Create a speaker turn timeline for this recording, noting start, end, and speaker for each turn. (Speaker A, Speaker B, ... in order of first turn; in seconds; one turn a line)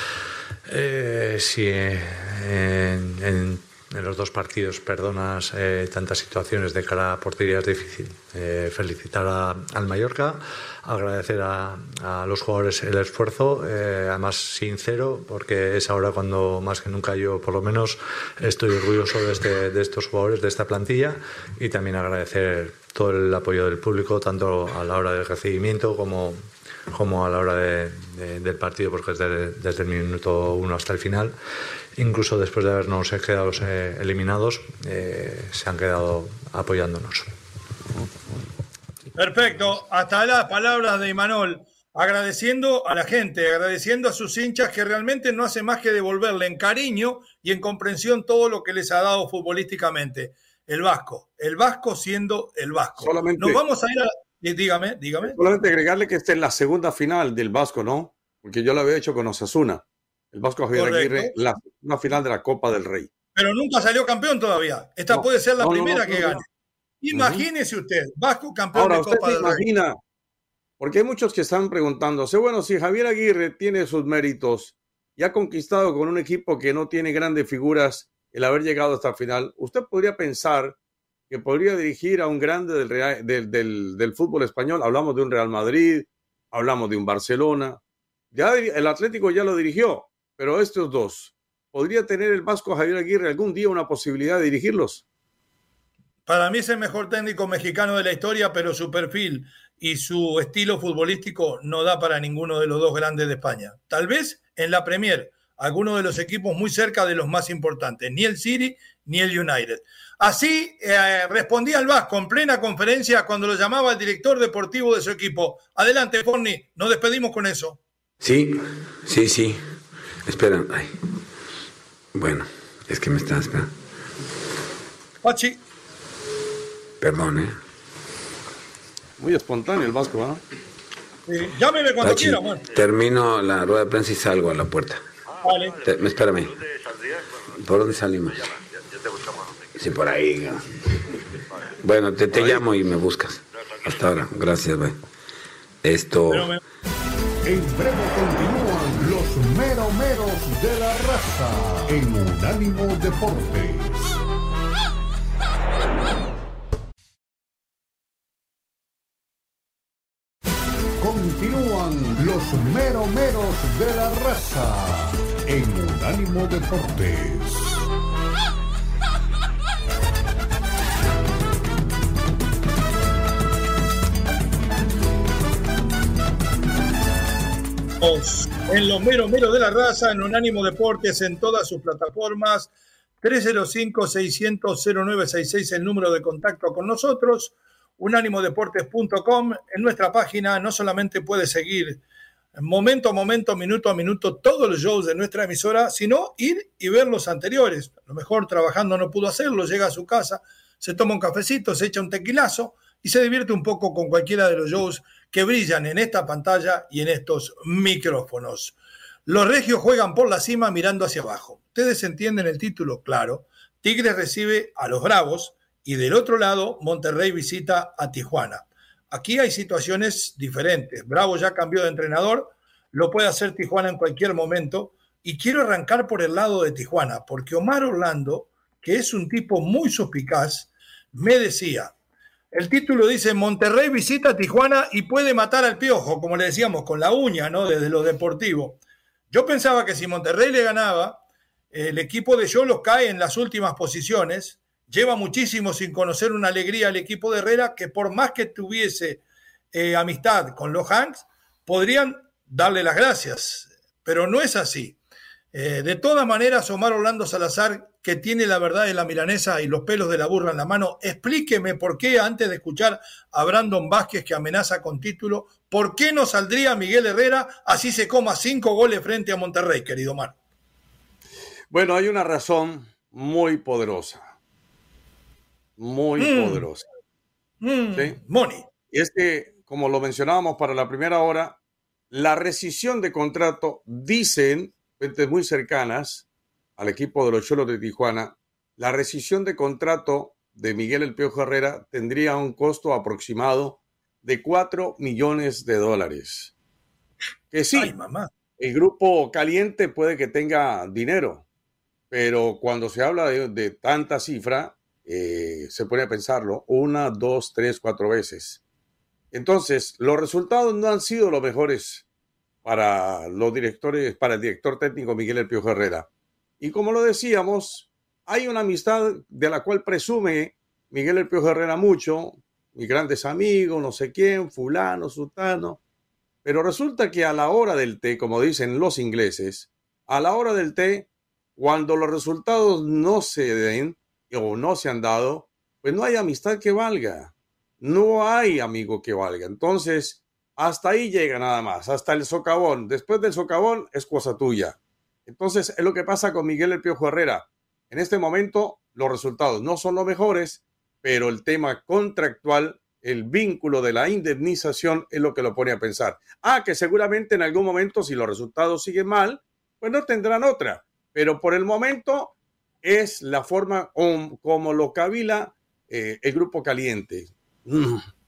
Speaker A: 0.7-26.4
Speaker A: 26.9-31.3
Speaker A: 32.0-37.3
Speaker B: 39.1-55.4
Speaker C: 53.0-53.6
Speaker C: 55.2-63.1
Speaker B: 60.7-61.3
Speaker B: 63.3-66.4
Speaker C: 65.1-66.4
Speaker B: 67.0-69.6
Speaker C: 67.1-67.4
Speaker C: 68.7-70.0
Speaker C: 70.8-80.8
Speaker C: 81.3-87.8
Speaker C: 88.3-95.0
Speaker B: 96.3-117.8
Speaker D: 118.2-119.6
Speaker D: 120.2-120.9
Speaker D: 122.1-123.7
Speaker B: 125.2-125.6
Speaker D: 127.0-127.5
Speaker C: 129.2-130.4
Speaker B: 131.3-132.6
Speaker D: 132.0-135.0
Speaker B: 135.4-135.8
Speaker D: 135.8-136.6
Speaker D: 137.5-138.5
Speaker D: 139.7-140.8
Speaker D: 141.8-144.9
Speaker D: 145.8-146.5
Speaker B: 146.3-146.6
Speaker E: 147.4-154.2
Speaker E: 161.0-167.8
Speaker B: 178.0-182.7
Speaker B: 183.2-192.0
Speaker B: 192.5-231.9
Speaker B: 232.5-238.8
Speaker B: 239.3-241.2
Speaker B: 241.7-249.2
Speaker B: 249.7-255.0
Speaker B: 255.5-270.3
Speaker C: 271.7-274.3
Speaker C: 275.8-276.8
Speaker B: 276.2-276.6
Speaker B: 277.6-278.7
Speaker C: 278.9-281.6
Speaker C: 282.1-286.2
Speaker C: 286.8-296.5
Speaker C: 297.5-297.9
Speaker B: 297.7-298.3
Speaker C: 298.6-301.4
Speaker C: 302.1-308.6
Speaker C: 309.3-312.0
Speaker C: 312.6-316.1
Speaker C: 316.6-325.8
Speaker C: 326.4-362.3
Speaker C: 362.8-368.0